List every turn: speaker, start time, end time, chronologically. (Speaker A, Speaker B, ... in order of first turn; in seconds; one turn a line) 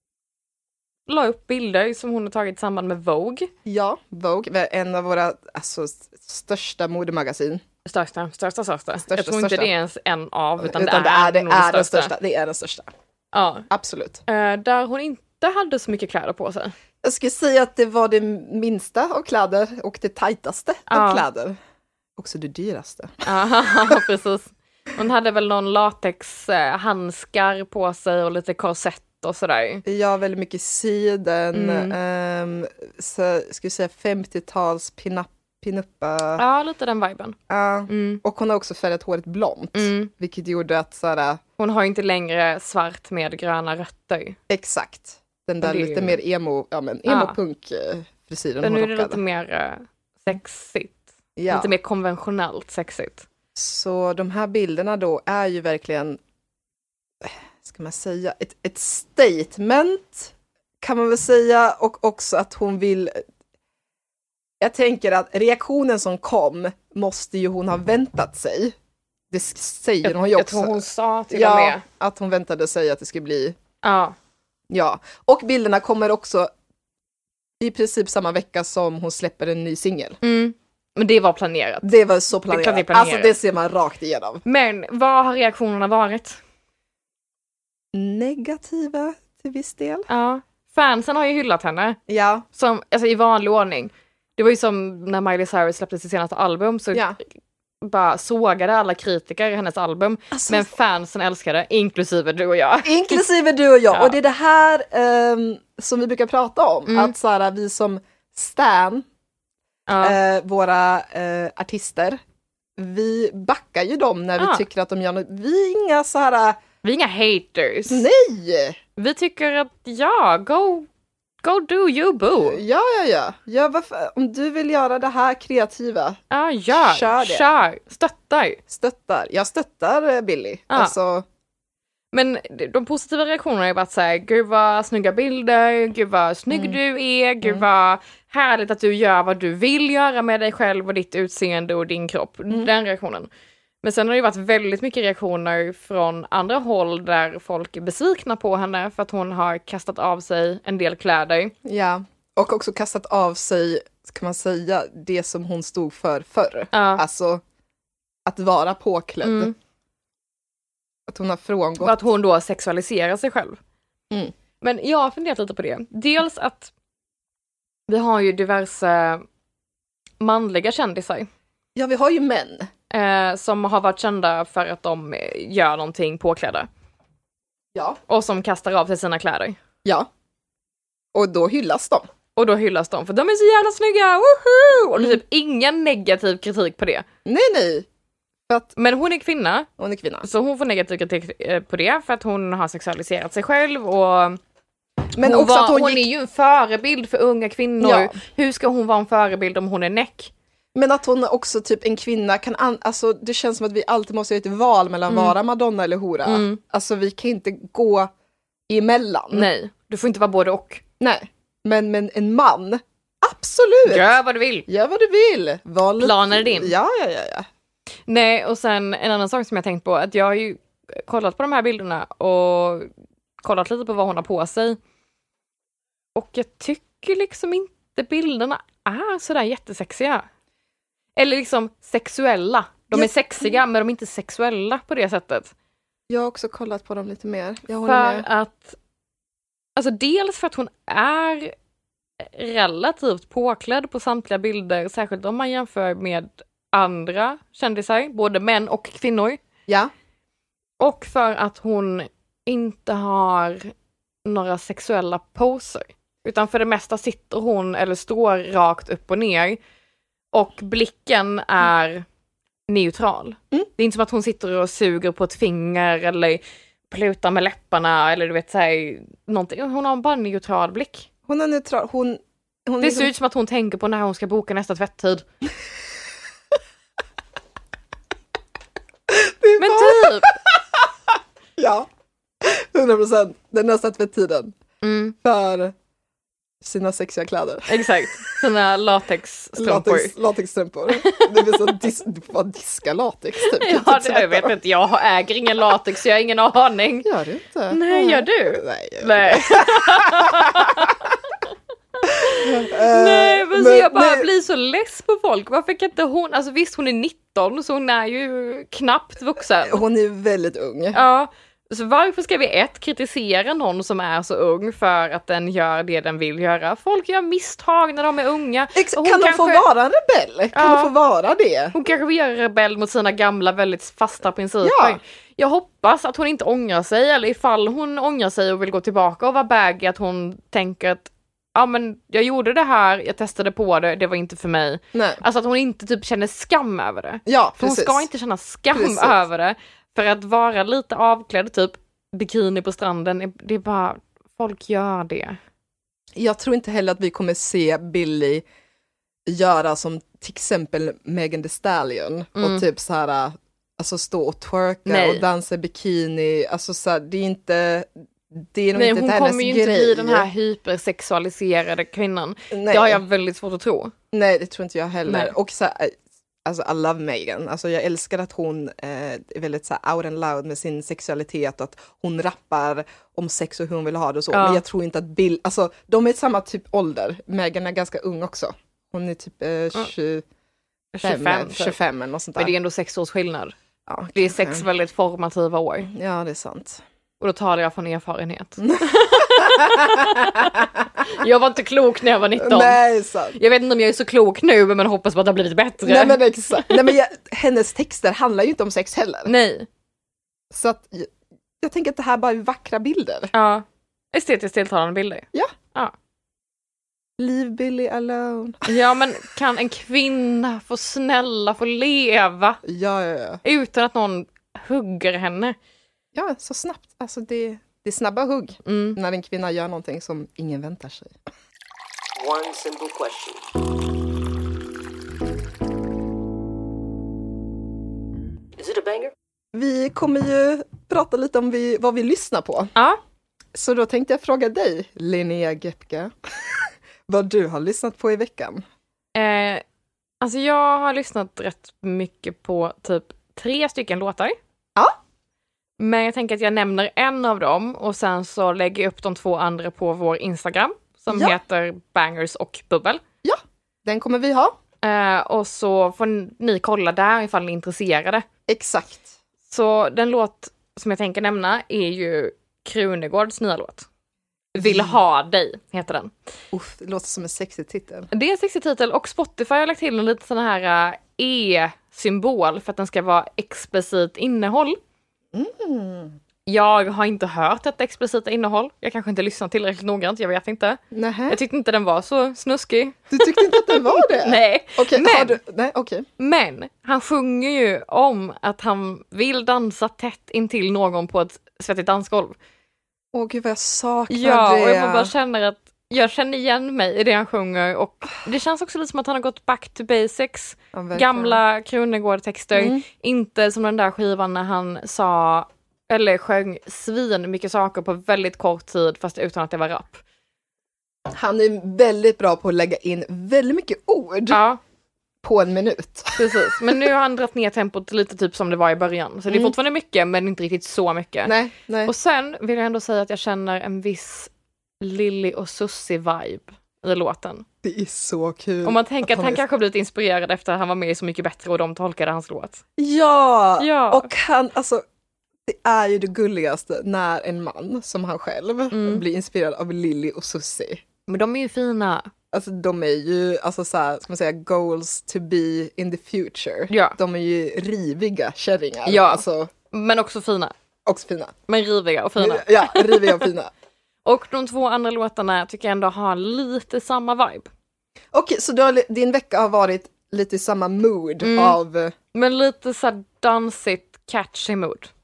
Speaker A: 1.1-3.5
Speaker B: 3.6-7.6
Speaker A: 7.8-12.1
Speaker B: 9.1-9.7
Speaker B: 10.6-12.9
Speaker A: 13.3-13.7
Speaker B: 13.7-14.2
Speaker A: 14.3-16.7
Speaker B: 17.0-21.6
Speaker A: 20.9-21.2
Speaker B: 22.2-23.2
Speaker A: 23.2-29.8
Speaker B: 29.8-36.4
Speaker A: 31.5-31.9
Speaker A: 36.4-37.4
Speaker B: 37.5-41.4
Speaker A: 37.9-38.2
Speaker A: 39.7-40.1
Speaker A: 41.6-44.4
Speaker B: 44.5-49.2
Speaker A: 45.6-46.2
Speaker A: 47.1-47.4
Speaker A: 48.6-53.2
Speaker B: 51.4-51.7
Speaker B: 53.5-56.2
Speaker B: 57.2-63.2
Speaker B: 64.6-68.7
Speaker B: 69.3-73.5
Speaker A: 70.0-71.8
Speaker A: 73.8-74.2
Speaker B: 74.7-76.5
Speaker B: 77.6-80.2
Speaker A: 80.2-81.9
Speaker B: 81.8-84.4
Speaker A: 82.5-83.3
Speaker A: 84.4-86.4
Speaker B: 87.9-90.1
Speaker A: 90.1-92.0
Speaker B: 92.1-92.4
Speaker A: 92.5-97.1
Speaker A: 97.8-103.2
Speaker B: 100.3-100.7
Speaker B: 102.8-109.0
Speaker A: 103.9-104.2
Speaker A: 106.9-107.1
Speaker A: 109.9-110.2
Speaker B: 110.0-112.2
Speaker B: 112.8-116.6
Speaker A: 114.4-114.6
Speaker A: 116.8-118.0
Speaker B: 117.9-118.8
Speaker A: 119.0-120.9
Speaker A: 121.4-122.6
Speaker B: 122.4-126.2
Speaker A: 126.3-128.6
Speaker B: 126.7-127.5
Speaker B: 128.7-131.2
Speaker A: 130.7-130.9
Speaker A: 132.1-143.3
Speaker B: 136.5-136.8
Speaker A: 143.8-151.5
Speaker B: 151.6-157.4
Speaker A: 156.7-157.0
Speaker B: 158.2-159.5
Speaker A: 159.2-159.5
Speaker B: 161.1-161.9
Speaker A: 161.8-163.6
Speaker A: 164.6-166.7
Speaker A: 167.9-169.2
Speaker A: 170.2-171.3
Speaker B: 171.8-172.7
Speaker A: 172.9-176.7
Speaker B: 177.7-178.0
Speaker A: 178.1-179.6
Speaker B: 181.1-182.1
Speaker A: 182.3-187.0
Speaker B: 187.2-187.8
Speaker A: 188.8-189.7
Speaker B: 189.8-190.3
Speaker A: 190.2-194.4
Speaker B: 195.2-196.1
Speaker A: 195.2-200.3
Speaker B: 197.8-198.1
Speaker B: 200.7-208.1
Speaker A: 205.1-205.3
Speaker A: 206.2-206.6
Speaker B: 208.7-209.5
Speaker A: 209.3-210.8
Speaker B: 211.0-214.1
Speaker A: 213.8-214.7
Speaker B: 214.7-217.5
Speaker A: 216.0-216.7
Speaker A: 218.1-224.8
Speaker A: 226.1-230.2
Speaker A: 231.2-235.5
Speaker B: 232.9-233.5
Speaker B: 236.1-238.2
Speaker A: 237.8-238.8
Speaker A: 239.8-241.5
Speaker A: 242.3-249.4
Speaker B: 249.7-249.9
Speaker A: 250.8-253.7
Speaker A: 254.2-259.6
Speaker A: 260.3-262.1
Speaker A: 262.7-271.1
Speaker B: 271.3-273.1
Speaker A: 272.8-275.2
Speaker B: 279.1-281.9
Speaker A: 279.6-280.3
Speaker B: 282.4-284.6
Speaker A: 284.8-285.1
Speaker B: 285.2-285.7
Speaker B: 286.6-287.8
Speaker A: 287.7-290.1
Speaker B: 289.6-294.5
Speaker A: 290.9-291.7
Speaker A: 293.4-297.1
Speaker B: 297.0-300.9
Speaker A: 297.7-301.0
Speaker A: 302.0-309.8
Speaker B: 302.2-304.3
Speaker B: 309.6-311.0
Speaker A: 310.9-319.6
Speaker B: 318.7-321.7
Speaker A: 320.5-320.9
Speaker A: 321.7-345.4
Speaker B: 324.6-325.0
Speaker B: 334.9-335.2
Speaker B: 337.2-338.0
Speaker B: 338.7-339.2
Speaker B: 346.1-348.4
Speaker B: 349.2-360.2
Speaker A: 352.4-352.6
Speaker A: 354.9-355.2
Speaker A: 358.7-363.9
Speaker B: 362.5-363.0
Speaker B: 364.1-380.2
Speaker A: 365.1-365.3
Speaker A: 374.3-374.6
Speaker A: 380.9-381.8
Speaker B: 381.0-382.5
Speaker A: 382.4-383.5
Speaker B: 383.9-384.6
Speaker A: 384.1-385.9
Speaker B: 385.9-386.8
Speaker A: 387.2-392.8
Speaker B: 388.6-390.9
Speaker B: 392.4-393.4
Speaker A: 393.3-396.8
Speaker B: 395.8-399.3
Speaker A: 399.2-399.7
Speaker B: 400.5-403.3
Speaker A: 403.3-405.9
Speaker B: 407.2-408.7
Speaker A: 408.6-412.6
Speaker B: 412.6-413.4
Speaker A: 413.4-415.6
Speaker B: 416.1-421.1
Speaker A: 418.6-419.0
Speaker C: 422.1-423.6
Speaker C: 428.6-429.1
Speaker B: 429.5-432.7
Speaker B: 433.5-438.6
Speaker A: 439.1-439.6
Speaker A: 440.2-444.4
Speaker A: 445.8-453.0
Speaker B: 451.1-451.4
Speaker B: 453.2-454.5
Speaker A: 454.8-458.2
Speaker B: 458.5-459.1
Speaker A: 459.5-463.9
Speaker A: 464.5-466.1
Speaker B: 464.6-464.9
Speaker B: 466.5-468.1
Speaker A: 468.1-474.8
Speaker B: 475.3-476.1
Speaker A: 476.4-485.4
Speaker B: 480.9-481.4
Speaker B: 483.1-486.1
Speaker A: 486.2-492.4
Speaker B: 493.1-495.1
Speaker A: 494.1-510.0
Speaker B: 500.7-501.4
Speaker B: 502.5-502.8
Speaker B: 511.1-514.4
Speaker A: 514.3-514.6
Speaker B: 515.2-516.8
Speaker A: 516.1-521.3
Speaker B: 521.3-521.9
Speaker A: 521.9-527.4
Speaker B: 527.6-529.4
Speaker A: 528.6-532.6
Speaker B: 532.8-534.8
Speaker A: 533.6-534.1
Speaker B: 535.4-540.8
Speaker A: 538.7-539.0
Speaker A: 541.1-542.1
Speaker B: 542.3-549.5
Speaker A: 546.7-547.0
Speaker A: 548.9-550.5
Speaker B: 550.9-551.4
Speaker A: 551.5-553.3
Speaker B: 552.2-553.5
Speaker A: 554.0-557.5
Speaker B: 558.1-561.9
Speaker A: 561.2-561.6
Speaker A: 562.1-564.9